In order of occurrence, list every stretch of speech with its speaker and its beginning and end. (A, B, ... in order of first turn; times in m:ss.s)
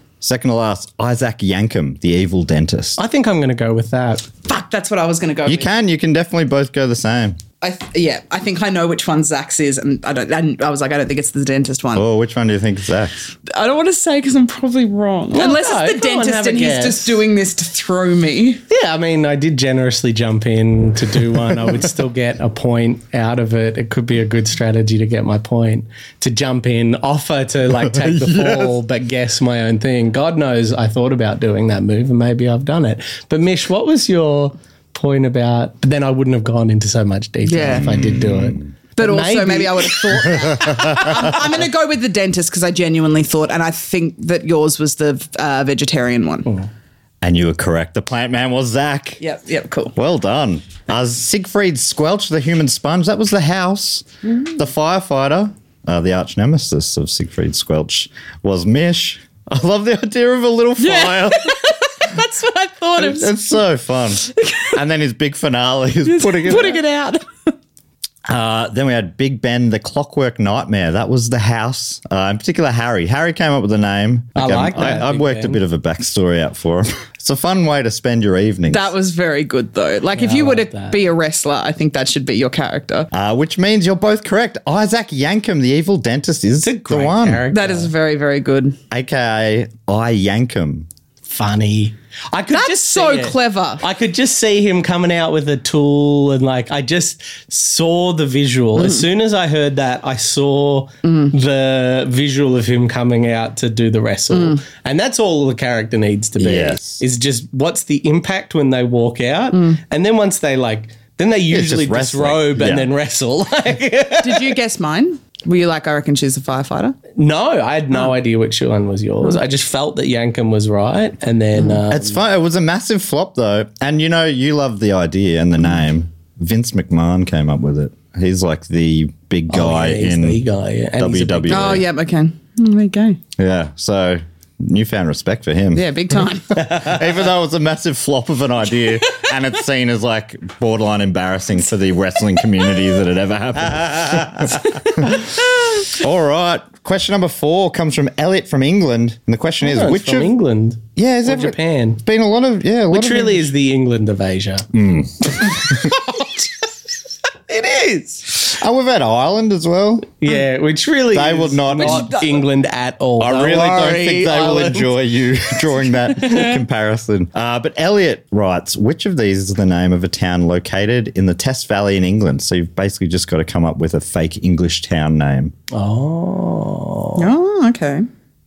0:00.2-0:03.0 A
0:03.0-0:04.3 B
0:04.5-0:05.7 C
0:05.5-0:07.4 A
0:07.6-0:12.0 C
0:12.0-0:13.3 A
0:13.5-0:18.6 C
0:15.3-0:17.2 B
0:18.7-0:41.5 B
0:28.1-0:28.7 A
0:37.4-0:37.9 C
0:37.7-0:38.7 A
0:39.0-0:46.5 C
0:40.7-0:41.1 A
0:47.2-0:49.2 A
0:49.2-0:50.0 C
0:50.0-1:01.6 A
1:00.8-1:03.5 C
1:03.0-1:06.8 A
1:04.5-1:04.8 C
1:06.0-1:07.5 C
1:08.3-1:18.9 A
1:14.4-1:15.6 B
1:18.7-1:23.1 C
1:20.2-1:21.0 B
1:23.1-1:27.4 A
1:26.6-1:27.9 B
1:27.5-1:28.8 C
1:28.9-1:30.9 A
1:31.3-1:54.6 B
1:32.5-1:33.8 C
1:38.8-1:39.0 C
1:41.0-1:41.3 C
1:44.3-1:44.6 C
1:46.4-1:47.0 A
1:49.5-1:49.8 C
1:51.5-1:52.9 A
1:54.2-1:57.0 C
1:57.2-2:02.2 B
2:01.9-2:10.4 A
2:09.5-2:11.9 B
2:11.0-2:11.8 A
2:11.5-2:13.2 C
2:13.4-2:15.9 A
2:15.7-2:16.6 C
2:16.5-2:25.3 A
2:25.9-2:30.3 A
2:29.6-2:32.0 B
2:31.0-2:33.5 A
2:32.9-2:34.7 B
2:34.7-2:35.9 A
2:37.5-2:38.4 B
2:38.5-2:40.1 A
2:40.2-2:45.0 B
2:41.1-2:42.2 A
2:41.7-2:42.4 C
2:43.2-2:55.5 A
2:55.7-2:57.3 B
2:57.2-2:58.1 C